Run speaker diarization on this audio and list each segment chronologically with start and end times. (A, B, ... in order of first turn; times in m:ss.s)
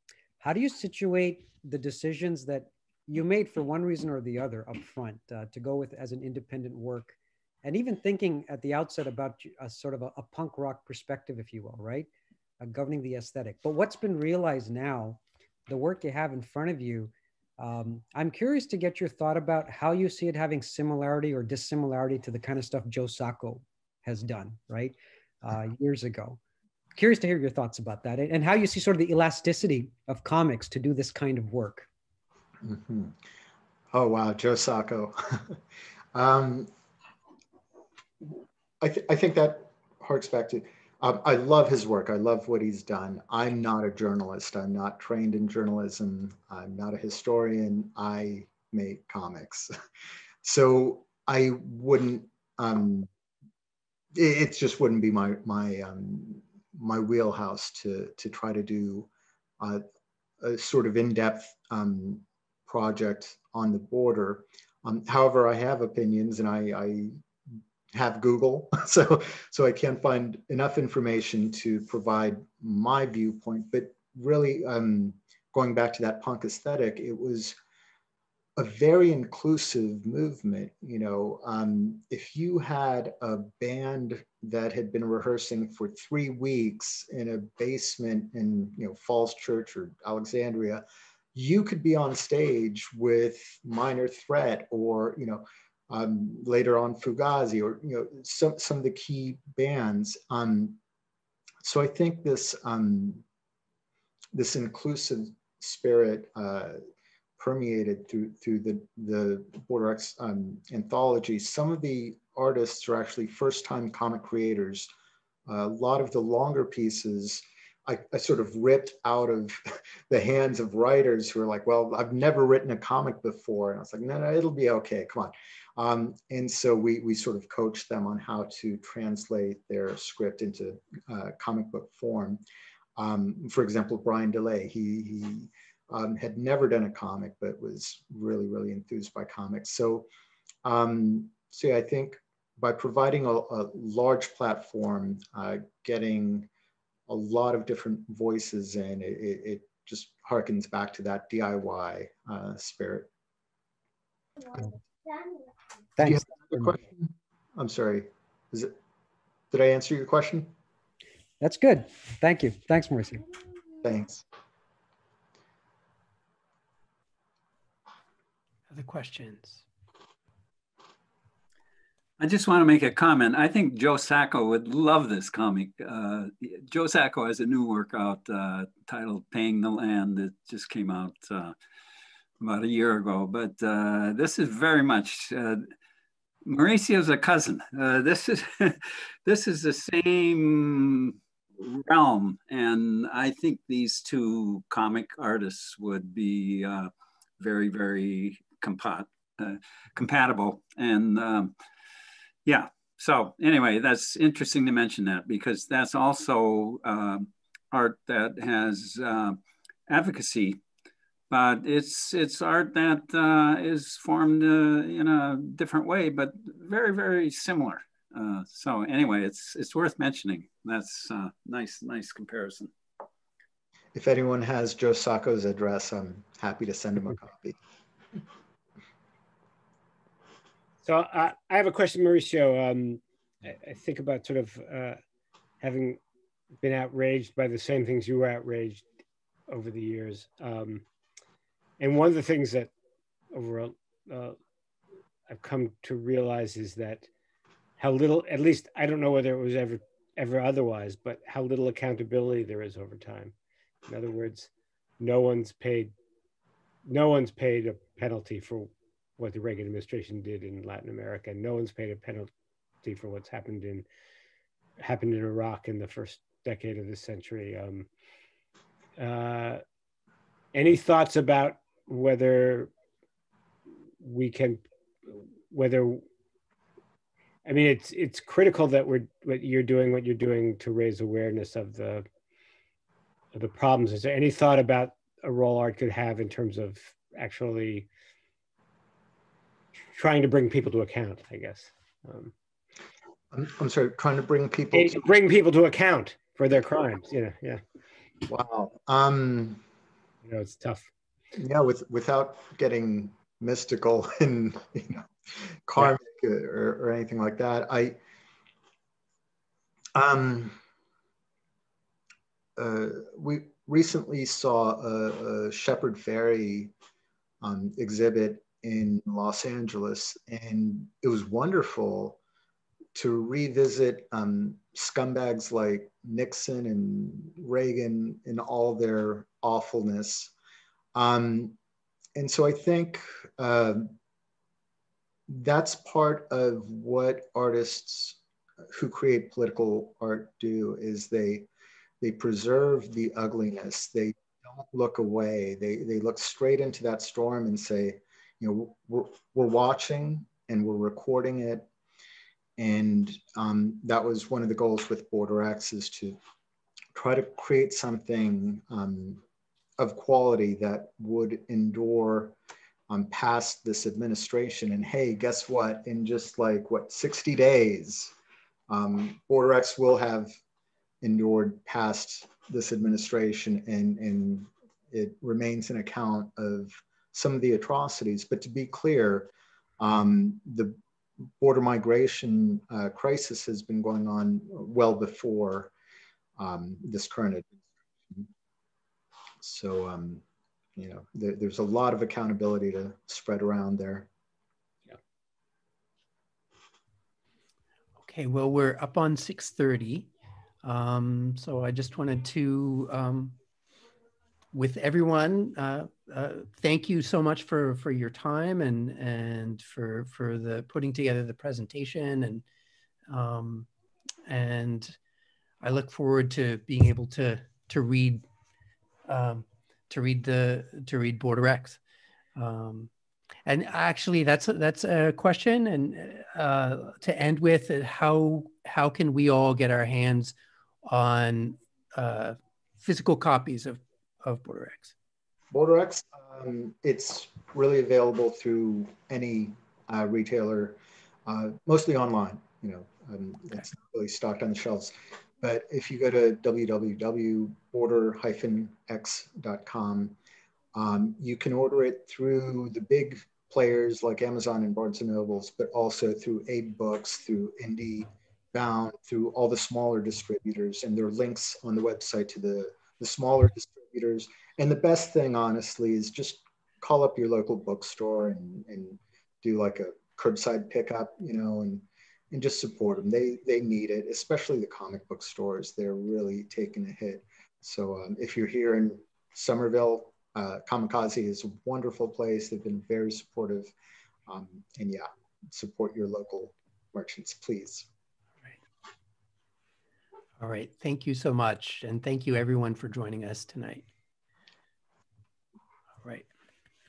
0:00.4-0:12.1 A
0:12.6-0:26.4 A
0:26.9-0:31.9 A
0:32.6-0:33.2 B
0:33.9-0:35.6 B
0:36.1-0:36.7 B
0:38.2-0:49.7 B
0:50.4-0:53.1 B
0:54.1-0:59.1 B
1:00.4-1:07.2 B
1:07.9-1:17.6 B
1:18.6-1:40.8 B
1:41.6-1:43.2 B
1:44.3-1:46.8 B
1:47.4-1:54.9 B
1:55.5-2:12.4 B
2:13.0-2:20.1 B
2:20.6-2:26.5 B
2:27.1-2:33.1 B
2:36.0-2:36.8 A
2:36.0-2:38.8 B
2:39.5-2:40.5 B
2:41.4-2:43.2 A
2:43.8-2:44.2 B
2:48.7-2:49.6 C
2:52.2-3:01.5 D
3:02.4-3:05.7 D
3:06.4-3:21.5 D
3:22.5-3:30.6 D
3:31.3-3:42.7 D
3:43.9-3:47.6 B
3:50.8-3:55.0 E
3:55.6-3:56.0 E
3:56.6-3:58.9 E
3:59.5-4:00.9 E
4:01.8-4:02.7 E
4:03.3-4:04.4 E
4:05.3-4:07.1 E
4:07.8-4:13.4 E
4:13.9-4:16.0 E
4:16.8-4:22.3 E
4:22.8-4:23.9 E
4:24.8-4:27.9 E
4:29.0-4:29.6 E
4:30.5-4:32.7 E
4:34.0-4:36.0 E
4:37.4-4:42.0 E
4:43.4-4:47.9 E
4:49.9-4:52.3 E
4:53.3-4:55.0 B
4:54.7-4:57.6 E
4:58.3-4:59.6 B
5:00.2-5:00.9 E
5:01.4-5:08.0 B
5:10.0-5:10.6 B
5:12.6-5:16.7 B
5:17.4-5:22.2 B
5:23.0-5:30.3 B
5:31.0-5:31.6 B
5:32.2-5:33.9 B
5:35.3-5:38.2 B
5:38.7-5:41.5 B
5:42.0-5:51.7 B
5:52.6-5:56.2 B
5:56.9-5:59.2 B
5:59.8-6:02.4 B
6:02.9-6:08.1 B
6:08.7-6:10.3 B
6:11.0-6:25.7 B
6:26.4-6:28.3 B
6:29.4-6:30.2 B
6:30.8-6:34.1 B
6:38.0-6:40.1 C
6:40.6-6:43.4 C
6:44.5-6:52.4 C
6:53.1-6:53.7 C
6:54.3-6:55.0 C
6:55.6-6:58.2 C
6:59.1-7:01.8 C
7:02.4-7:02.9 C
7:03.5-7:14.9 C
7:15.5-7:30.2 B
7:30.7-8:03.7 B
8:04.3-8:07.9 B
8:10.4-8:13.8 C